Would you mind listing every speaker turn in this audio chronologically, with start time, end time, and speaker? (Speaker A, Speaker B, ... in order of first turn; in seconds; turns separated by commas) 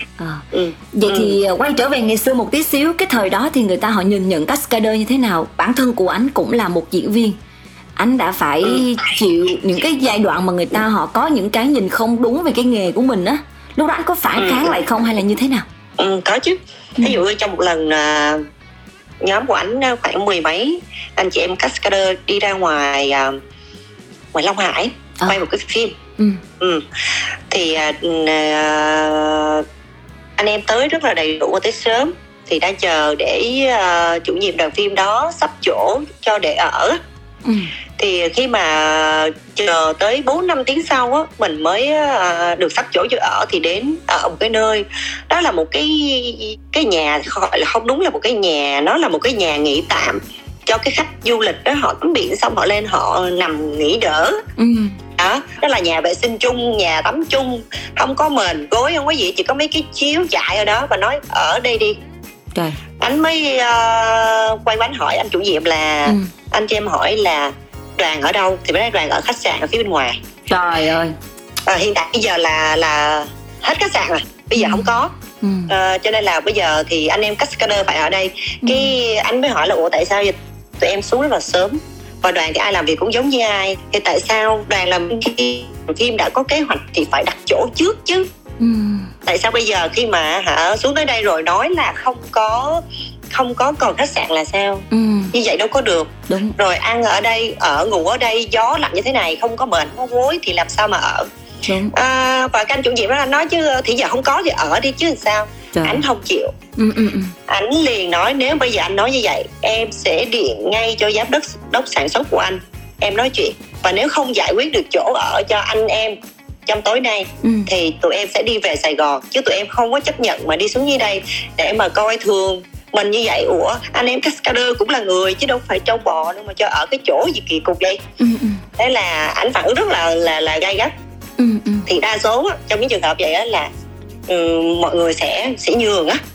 Speaker A: 0.2-7.4, Speaker B: 0.5-1.4, Speaker A: 8.0-15.7, Speaker B: 14.4-14.7, Speaker B: 16.0-18.4, Speaker B: 19.2-23.4, Speaker B: 24.3-26.0, Speaker B: 26.6-26.9, Speaker B: 27.5-29.7, Speaker B: 30.4-37.0, Speaker A: 37.5-37.7, Speaker B: 38.0-54.4, Speaker A: 54.6-55.0, Speaker B: 55.2-62.0, Speaker B: 63.0-70.2, Speaker A: 66.1-66.3, Speaker A: 70.5-71.1, Speaker B: 71.7-75.1, Speaker A: 74.6-74.9, Speaker A: 75.4-75.7, Speaker B: 75.7-88.3, Speaker A: 88.6-89.1, Speaker B: 89.2-101.3, Speaker A: 94.9-95.3, Speaker A: 96.3-96.5, Speaker A: 101.7-101.9, Speaker B: 101.9-106.5, Speaker A: 105.8-106.0, Speaker A: 106.8-107.3, Speaker B: 107.5-128.0, Speaker A: 117.4-117.7, Speaker A: 128.2-128.6, Speaker B: 128.8-130.9, Speaker A: 131.4-131.9, Speaker B: 131.9-133.7, Speaker B: 134.3-136.2